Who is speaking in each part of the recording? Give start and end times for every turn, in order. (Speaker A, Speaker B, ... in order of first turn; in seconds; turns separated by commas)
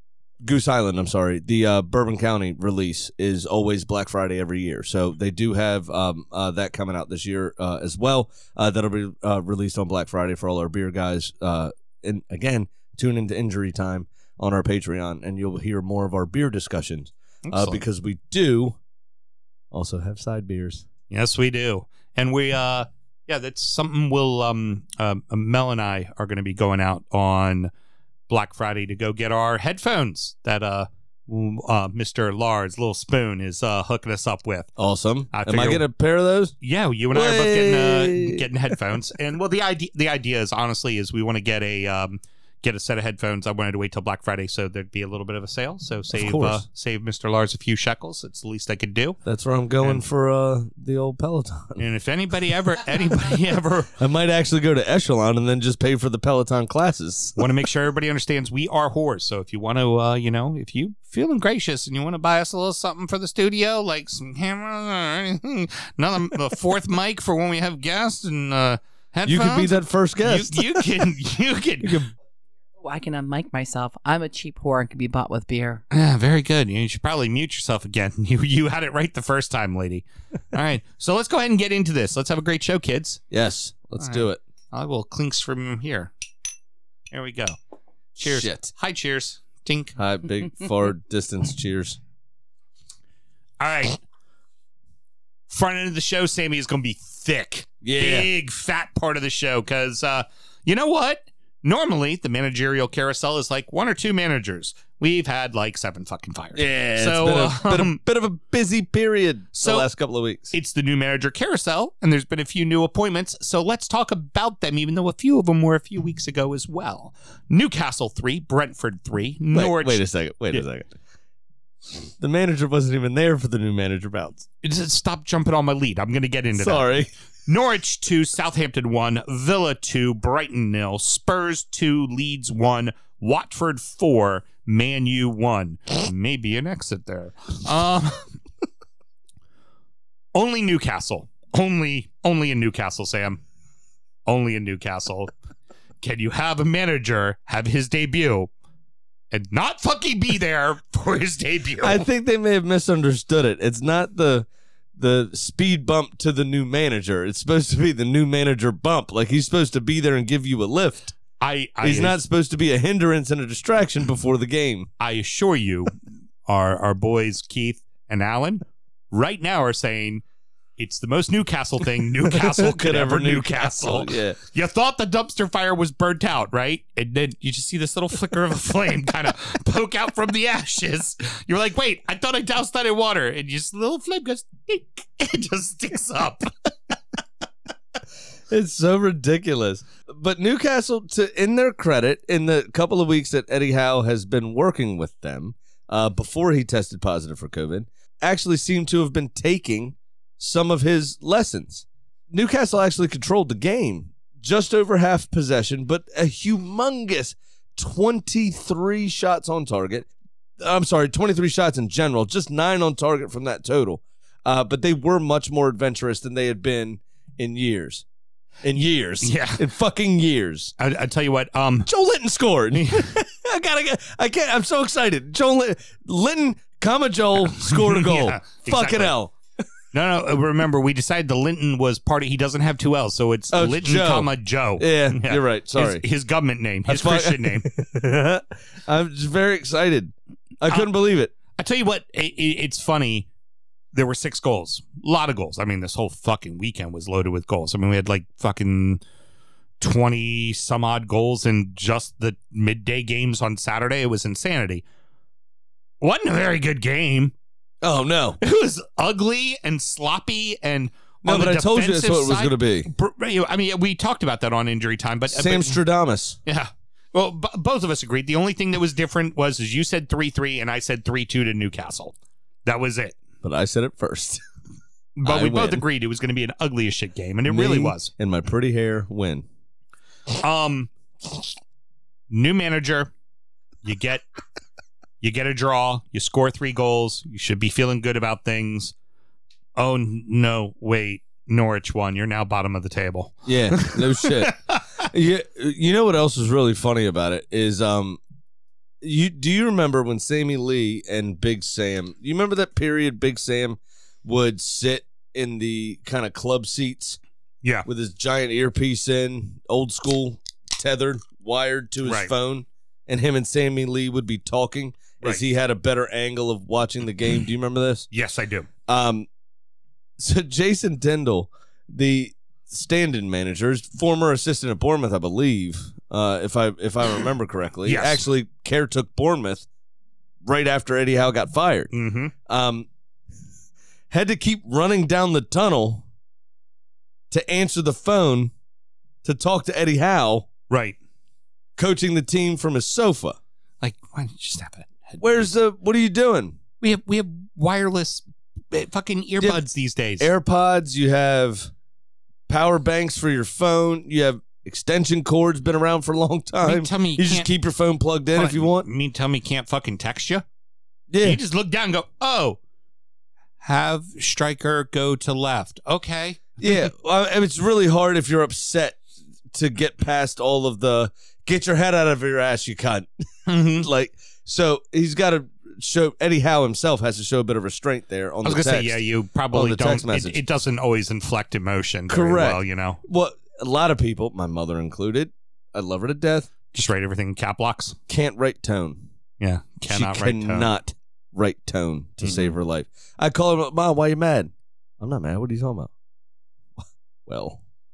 Speaker A: 0.4-18.8, Speaker B: 17.4-17.8, Speaker A: 19.7-20.8, Speaker B: 21.1-27.7, Speaker B: 28.3-34.7, Speaker A: 34.8-36.5, Speaker B: 35.3-35.9, Speaker B: 36.6-49.2, Speaker A: 37.1-38.4, Speaker A: 46.1-46.6, Speaker A: 49.2-51.8, Speaker B: 51.8-53.9, Speaker A: 53.1-57.5, Speaker B: 57.4-72.0, Speaker A: 69.2-71.1, Speaker A: 71.8-72.1, Speaker C: 72.8-75.8, Speaker B: 75.9-83.2, Speaker A: 83.3-84.4, Speaker B: 84.0-86.1, Speaker B: 87.1-87.6, Speaker B: 88.2-89.9, Speaker A: 88.2-88.7, Speaker A: 90.0-92.0, Speaker B: 93.6-94.0, Speaker B: 95.5-108.0, Speaker A: 97.8-98.3, Speaker A: 106.5-110.5, Speaker B: 109.5-109.9, Speaker B: 110.5-120.6, Speaker A: 119.5-120.9, Speaker A: 122.2-124.5, Speaker B: 124.6-126.9, Speaker A: 126.5-127.1, Speaker B: 127.5-138.3, Speaker B: 140.3-143.4, Speaker B: 144.2-145.3, Speaker B: 146.0-148.5, Speaker B: 149.3-152.1, Speaker A: 151.8-161.2, Speaker B: 161.4-162.2, Speaker A: 161.8-164.9, Speaker B: 165.0-165.9, Speaker B: 166.4-170.2, Speaker B: 170.8-186.5, Speaker A: 172.2-174.4, Speaker A: 188.5-210.1, Speaker A: 210.6-218.0, Speaker A: 218.6-220.7, Speaker B: 219.2-219.6, Speaker B: 220.8-221.9, Speaker A: 221.8-229.3, Speaker B: 222.7-223.1, Speaker B: 227.5-229.1, Speaker B: 229.9-237.7, Speaker A: 233.5-236.0, Speaker A: 236.9-241.3, Speaker B: 241.6-243.3, Speaker B: 243.9-249.0, Speaker B: 249.8-254.8, Speaker B: 256.0-257.3, Speaker A: 257.8-258.4, Speaker B: 258.4-265.8, Speaker A: 261.2-262.9, Speaker A: 265.3-266.4, Speaker B: 266.4-273.2, Speaker A: 273.4-274.4, Speaker B: 275.2-278.1, Speaker A: 275.2-275.8, Speaker A: 277.4-279.4, Speaker B: 280.3-280.9, Speaker B: 282.3-283.1, Speaker B: 283.8-284.2, Speaker B: 285.2-288.9, Speaker B: 289.8-294.8, Speaker A: 293.4-298.2, Speaker A: 299.0-307.2, Speaker A: 307.9-318.1, Speaker B: 312.0-312.3, Speaker B: 318.1-318.7, Speaker A: 318.9-319.3, Speaker A: 320.2-329.6, Speaker B: 327.8-328.2, Speaker A: 330.4-331.9, Speaker B: 331.9-332.3, Speaker A: 332.4-332.9, Speaker A: 334.1-336.0, Speaker A: 337.3-338.5, Speaker A: 339.2-340.5, Speaker B: 340.7-341.0, Speaker A: 341.8-343.4, Speaker B: 343.8-345.5, Speaker A: 345.2-346.6, Speaker B: 346.8-350.3, Speaker A: 350.2-351.7, Speaker A: 352.5-358.9, Speaker B: 356.6-357.5, Speaker B: 358.3-360.4, Speaker A: 361.1-361.4, Speaker B: 361.2-362.6, Speaker B: 363.6-366.8, Speaker A: 366.6-373.1, Speaker B: 373.5-373.9, Speaker A: 373.7-380.4, Speaker B: 378.4-383.0, Speaker A: 382.1-386.5, Speaker B: 386.7-388.0, Speaker A: 388.1-389.0, Speaker B: 389.4-390.7, Speaker A: 389.9-395.9, Speaker B: 392.2-392.5, Speaker A: 397.2-397.6